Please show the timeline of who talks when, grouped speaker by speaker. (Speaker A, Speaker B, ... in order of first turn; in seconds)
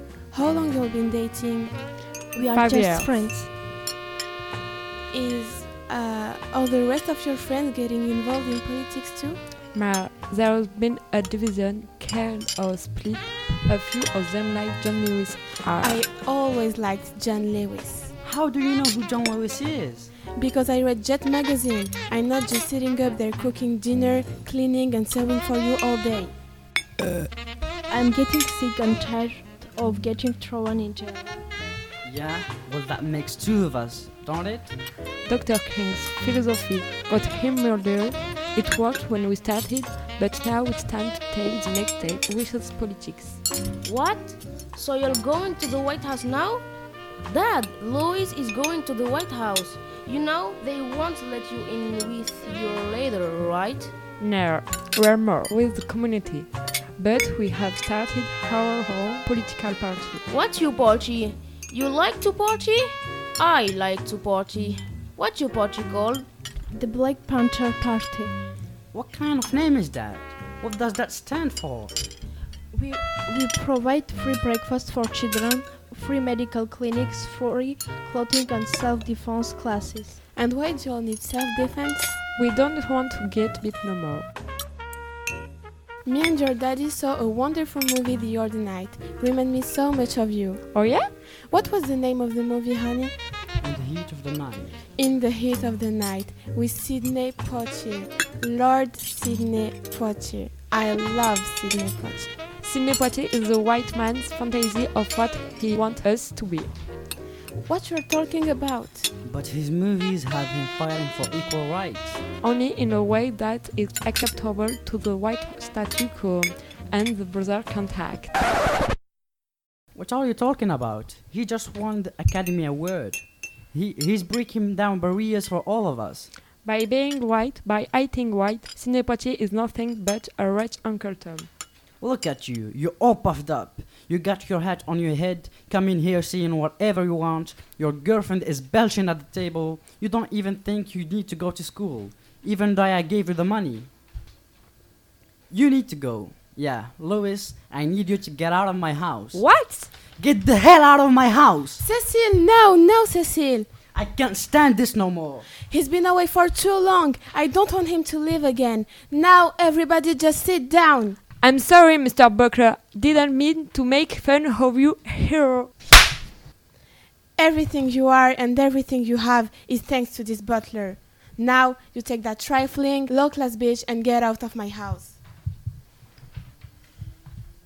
Speaker A: 0.3-1.8, 5.1-9.4, 15.8-18.1, 20.4-26.3, 80.3-82.2, 86.0-90.7, 91.5-93.1, 94.9-102.3, 107.7-109.1, 151.8-153.7, 155.7-161.2, 167.4-175.2
Speaker B: 2.3-3.5, 27.9-31.3, 66.7-68.3, 72.7-80.2
Speaker C: 2.5-3.2, 9.7-16.0, 35.2-43.4, 54.2-60.2, 82.3-84.3, 90.7-91.1, 102.6-106.7, 112.4-118.4, 126.6-131.5, 149.3-149.9, 161.4-165.8
Speaker D: 18.2-20.1, 32.0-34.7, 68.9-71.9, 93.6-94.8, 109.2-112.2, 119.9-126.3, 132.0-143.9, 145.5-149.4, 150.1-151.8, 153.9-155.5
Speaker E: 43.8-46.6, 47.2-53.9, 60.3-66.2